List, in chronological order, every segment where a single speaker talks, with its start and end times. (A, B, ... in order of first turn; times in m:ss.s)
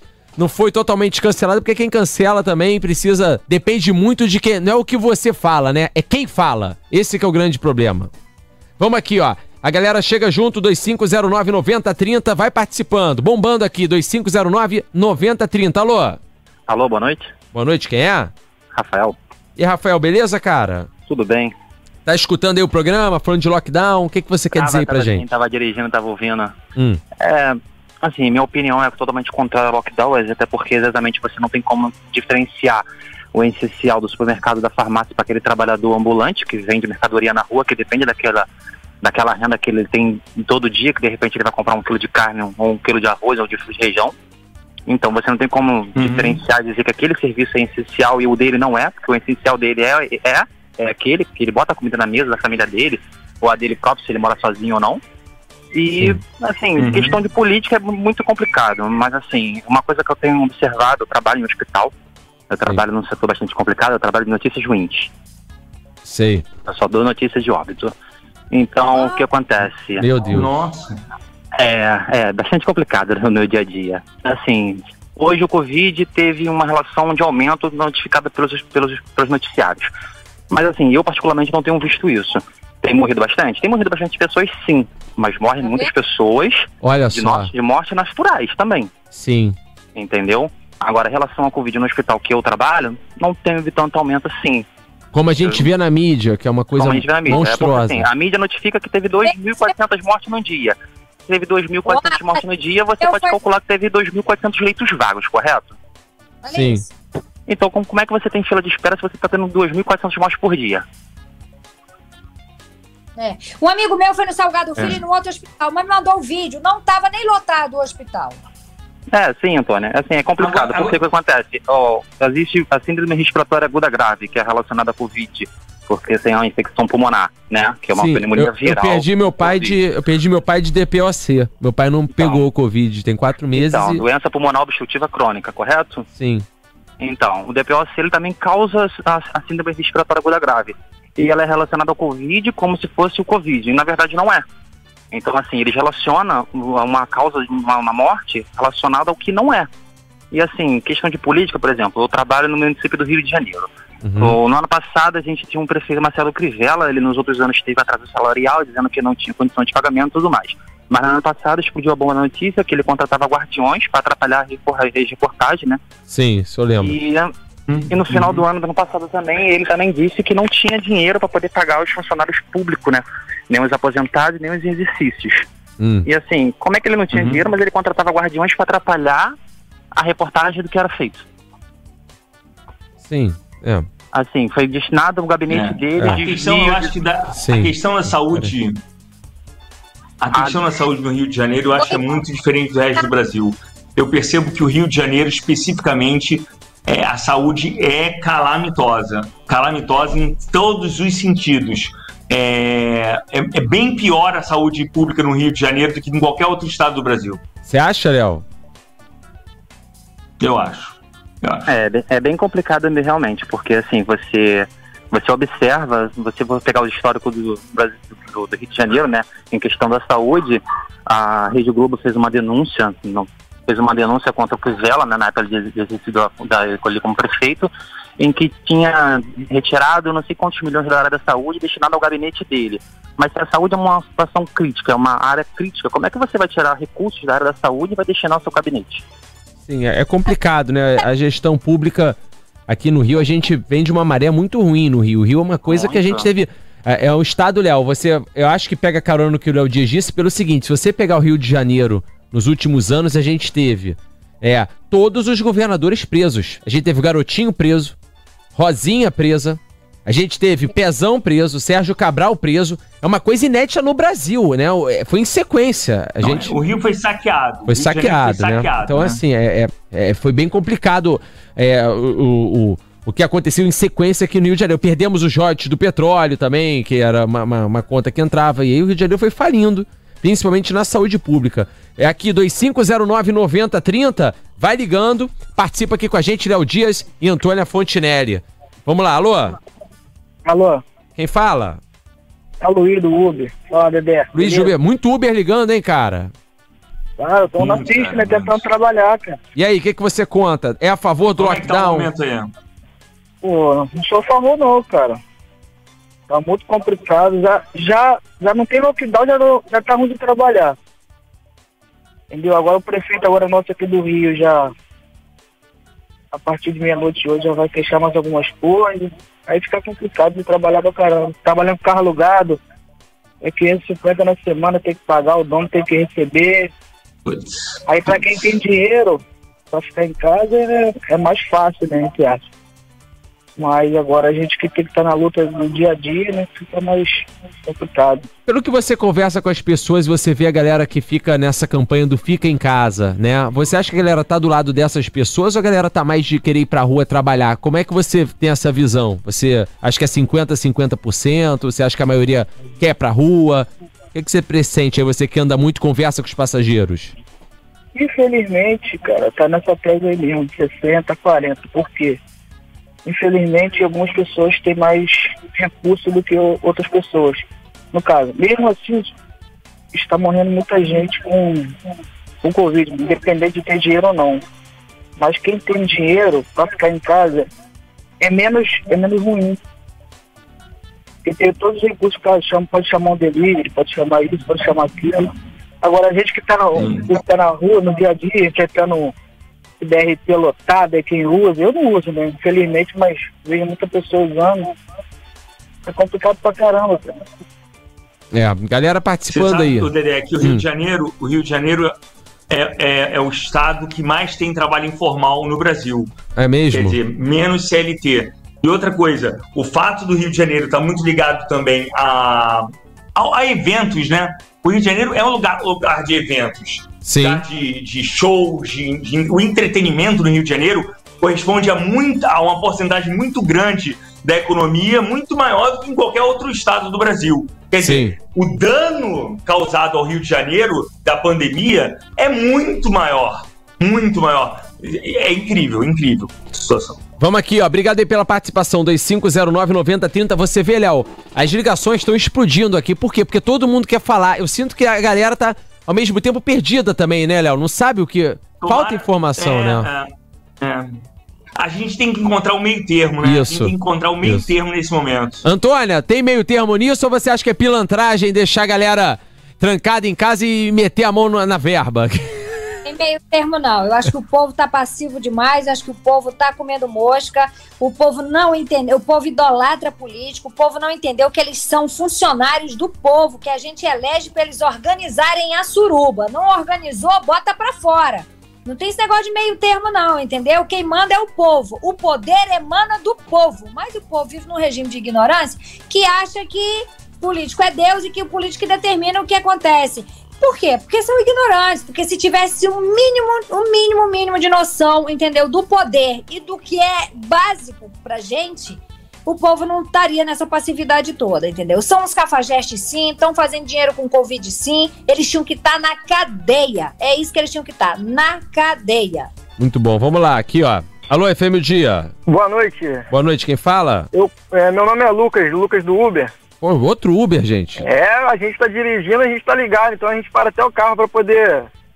0:00.4-0:08.1 A
0:08.8-0:16.2 A
0:16.7-0:17.3 B
0:17.5-0:18.3 A
0:18.7-0:19.2 B
0:19.6-0:20.9 A
0:21.1-0:21.6 B
0:22.1-0:25.2 A
0:24.5-0:26.6 B
0:27.2-0:38.5 B
0:39.0-0:44.2 B
0:44.9-0:55.0 B
0:46.0-0:46.4 C
0:55.7-1:01.9 B
0:56.8-0:57.2 C
1:02.5-1:05.1 B
1:06.1-1:06.5 A
1:06.6-1:08.0 B
1:08.5-1:10.1 B
1:09.0-1:09.2 D
1:10.0-1:10.5 A
1:10.3-1:11.0 C
1:11.6-1:19.9 B
1:20.5-1:28.9 B
1:25.6-1:25.9 D
1:26.8-1:27.5 A
1:29.2-1:29.6 A
1:30.0-1:34.7 B
1:35.1-1:38.1 A
1:35.4-1:35.7 B
1:36.8-1:45.8 B
1:39.2-1:39.7 D
1:41.9-1:42.4 D
1:43.0-1:43.4 D
1:46.4-1:46.9 D
1:46.5-1:46.8 A
1:47.5-1:50.8 B
1:53.2-1:58.4 D
1:59.1-2:09.8 B
2:00.4-2:01.0 C
2:08.0-2:14.0 A
2:12.1-2:12.5 B
2:13.5-2:16.1 B
2:16.2-2:16.5 A
2:17.0-2:24.4 B
2:25.1-2:29.7 B
2:30.3-2:45.8 B
2:34.0-2:34.4 A
2:46.1-2:47.0 A
2:46.8-2:47.3 B
2:47.7-2:48.4 C
2:47.9-2:55.5 B
2:55.8-2:56.1 A
2:56.0-2:59.4 B
2:57.1-2:57.4 C
3:00.0-3:01.3 B
3:03.1-3:03.9 A
3:04.1-3:07.0 B
3:05.5-3:08.8 C
3:06.0-3:06.2 A
3:07.3-3:08.5 A
3:10.2-3:27.4 C
3:10.3-3:10.6 B
3:27.7-3:28.4 A
3:30.4-3:31.7 C
3:31.7-3:59.0 B
3:59.7-4:02.2 A
4:02.7-4:17.9 A
4:05.7-4:06.3 B
4:18.6-4:26.6 A
4:26.2-4:29.2 C
4:27.7-4:49.6 A
4:50.4-4:50.8 E
4:51.2-4:51.8 A
4:52.6-4:54.7 E
4:54.3-4:56.3 A
4:57.2-4:59.4 E
4:57.6-4:58.6 C
4:59.6-5:02.1 A
5:01.4-5:02.5 C
5:03.4-5:05.2 E
5:06.3-5:10.8 E
5:12.3-5:14.7 E
5:16.3-5:22.6 E
5:23.4-5:26.7 E
5:27.3-5:28.4 C
5:27.9-5:32.4 E
5:33.6-5:38.3 E
5:38.5-5:57.1 A
5:58.0-6:02.2 E
6:03.0-6:09.1 E
6:09.9-6:11.8 E
6:12.4-6:14.4 E
6:15.2-6:17.5 E
6:18.2-6:19.6 E
6:21.2-6:29.1 E
6:26.8-6:27.1 C
6:29.8-6:34.8 E
6:35.9-6:37.2 E
6:38.3-6:39.9 A
6:39.3-6:42.0 C
6:42.5-6:46.1 C
6:46.4-6:47.0 A
6:46.7-7:17.0 C
6:57.0-6:57.4 A
7:07.8-7:08.2 A
7:17.2-7:29.9 A
7:28.6-7:31.0 C
7:31.6-7:35.4 C
7:33.2-7:34.5 A
7:35.4-7:42.4 A
7:42.8-8:29.3 D
8:29.6-8:32.1 A
8:32.3-8:33.1 F
8:33.1-8:34.1 A
8:34.1-8:36.3 F
8:36.6-8:37.8 A
8:37.8-8:41.7 F